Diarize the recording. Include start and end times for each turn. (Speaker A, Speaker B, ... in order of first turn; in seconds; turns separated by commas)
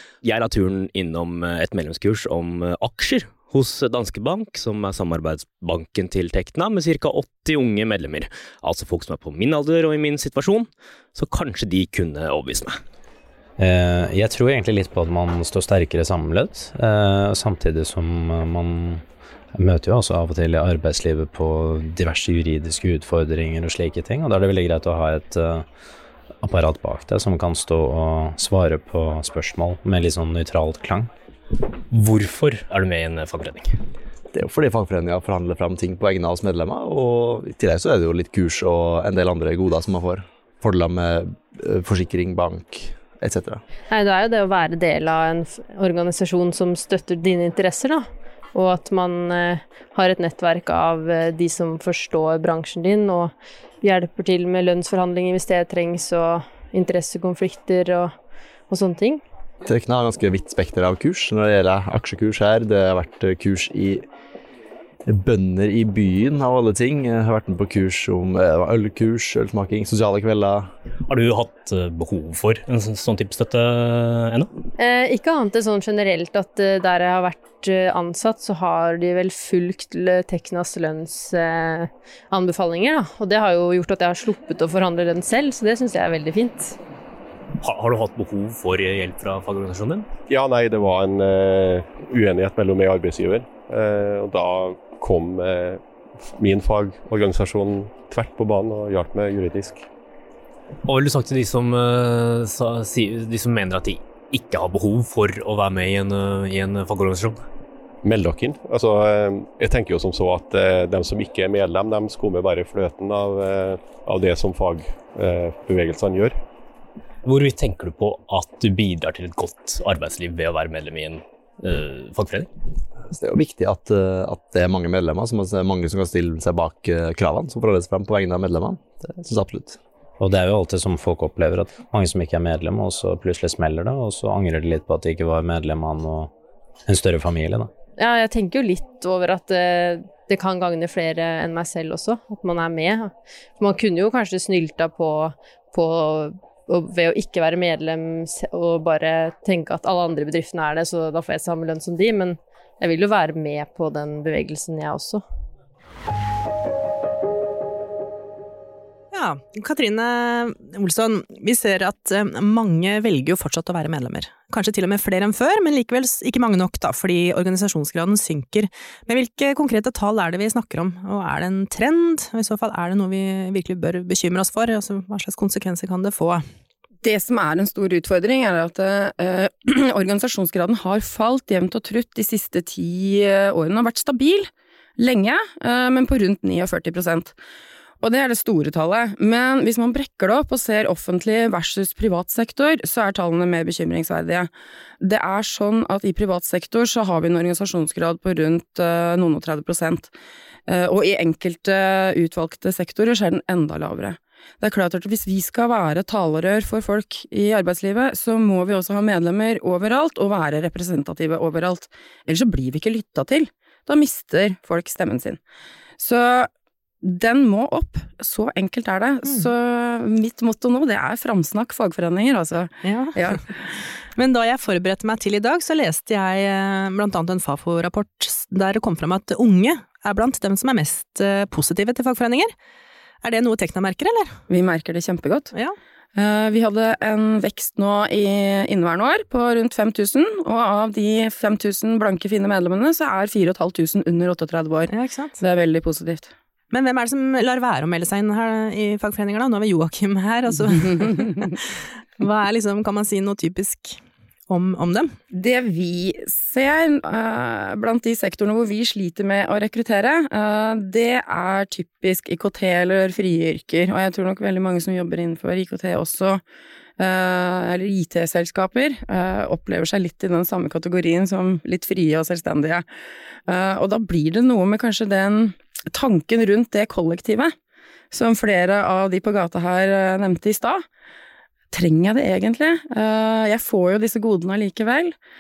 Speaker A: 0.2-12.8, Speaker B: 13.6-18.9, Speaker B: 19.6-25.2, Speaker B: 26.5-31.0, Speaker A: 31.9-33.8, Speaker C: 34.3-43.6, Speaker D: 43.9-58.1, Speaker D: 58.7-59.2, Speaker C: 59.6-64.0, Speaker C: 65.0-70.7, Speaker A: 71.0-74.5, Speaker D: 74.8-86.8, Speaker A: 87.6-90.1, Speaker E: 90.3-95.8, Speaker E: 96.4-99.9, Speaker A: 100.9-107.4, Speaker E: 108.0-116.4, Speaker A: 117.2-122.5, Speaker C: 123.1-129.8, Speaker B: 130.2-136.3, Speaker B: 136.9-137.7, Speaker D: 138.0-155.2, Speaker F: 159.1-176.4, Speaker G: 177.0-187.3, Speaker G: 188.0-194.5, Speaker G: 195.0-200.1, Speaker G: 200.7-215.4, Speaker G: 216.0-216.5, Speaker G: 217.0-223.5, Speaker F: 222.8-232.5, Speaker F: 233.2-234.3, Speaker G: 234.5-235.5, Speaker G: 236.2-246.3, Speaker F: 244.9-245.4, Speaker F: 246.7-255.2, Speaker G: 255.3-266.4, Speaker G: 267.0-272.9, Speaker G: 273.5-277.6, Speaker G: 278.1-280.9, Speaker G: 281.7-285.2